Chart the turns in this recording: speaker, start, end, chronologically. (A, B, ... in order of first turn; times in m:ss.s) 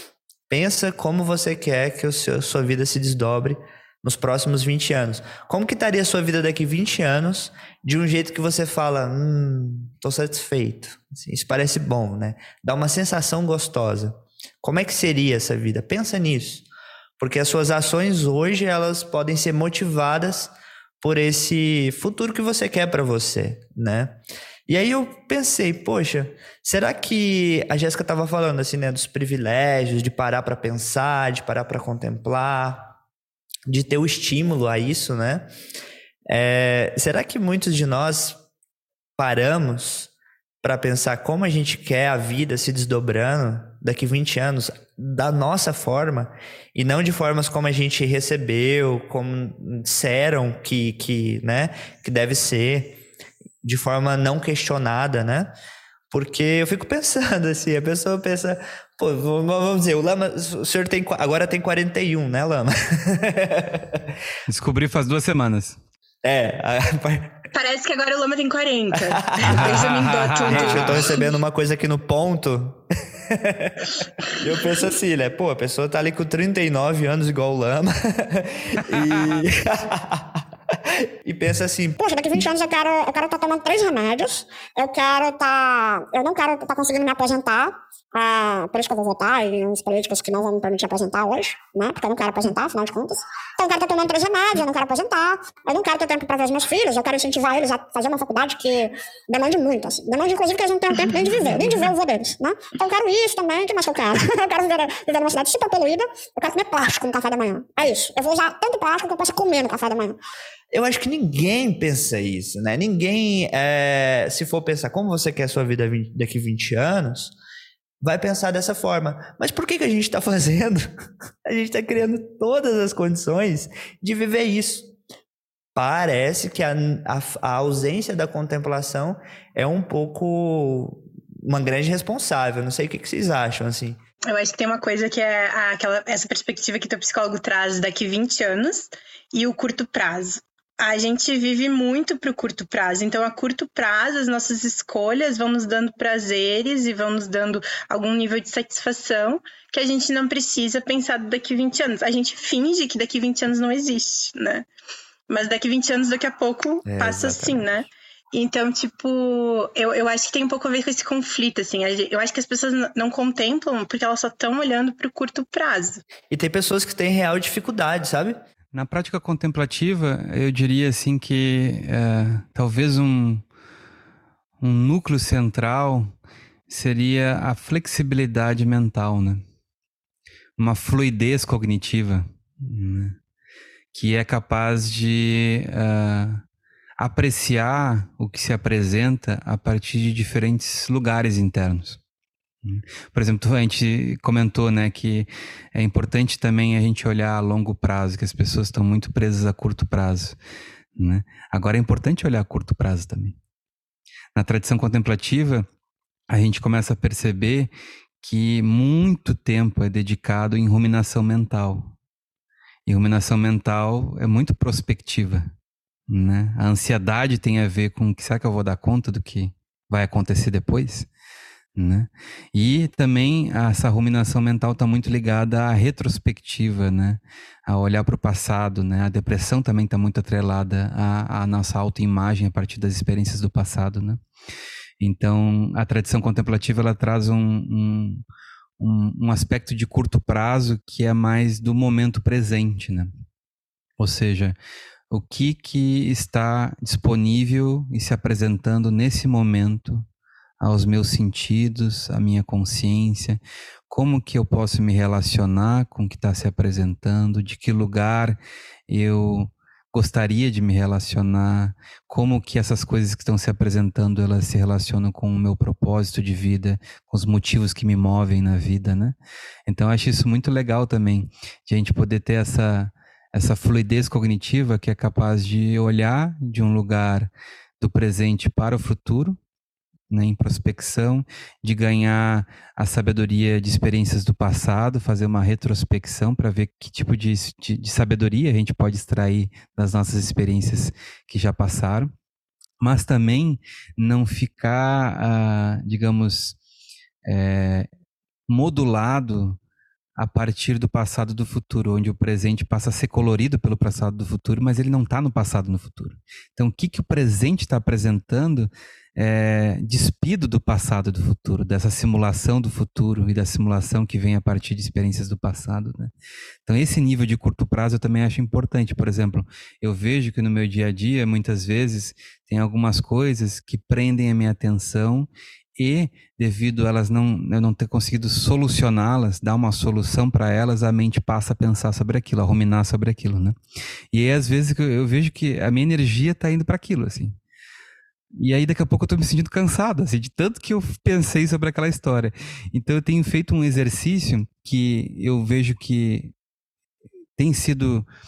0:00.5-0:16.7 A
0:17.2-0:32.9 A
0:33.7-0:35.5 A
0:36.3-0:38.4 A
0:39.2-0:53.0 A
0:53.6-0:55.6 A
0:56.1-1:04.1 A
1:04.5-1:05.8 B
1:06.2-1:07.4 A
1:07.5-1:11.3 C
1:09.0-1:09.9 A
1:09.4-1:11.1 B
1:10.5-1:13.8 A
1:14.4-1:20.4 A
1:19.0-1:19.4 B
1:21.2-1:22.0 A
1:22.0-1:50.2 D
1:50.7-1:57.3 A
1:58.0-2:00.9 A
2:01.4-2:04.9 A
2:05.8-2:14.0 A
2:14.3-2:34.7 C
2:35.3-2:46.0 C
2:36.9-2:37.9 A
2:46.3-2:48.4 A
2:48.7-2:53.4 B
2:54.6-2:56.2 B
2:56.7-2:59.4 B
3:00.6-3:03.2 B
3:03.9-3:06.4 B
3:07.0-3:12.0 B
3:12.6-3:20.4 B
3:21.0-3:23.4 B
3:24.4-3:25.7 B
3:26.3-3:32.0 B
3:32.9-3:35.5 B
3:36.1-3:41.1 B
3:41.8-3:54.2 B
3:55.0-3:58.2 B
3:58.8-4:03.1 B
4:04.0-4:04.6 B
4:05.1-4:10.1 B
4:10.6-4:29.2 B
4:29.7-4:39.4 B
4:40.1-4:52.1 B
4:52.8-4:56.6 B
4:57.2-4:57.9 B
4:58.5-4:59.6 B
5:00.2-5:16.1 B
5:16.7-5:33.6 B
5:34.1-5:37.4 B
5:38.4-5:46.3 B
5:47.4-5:48.1 B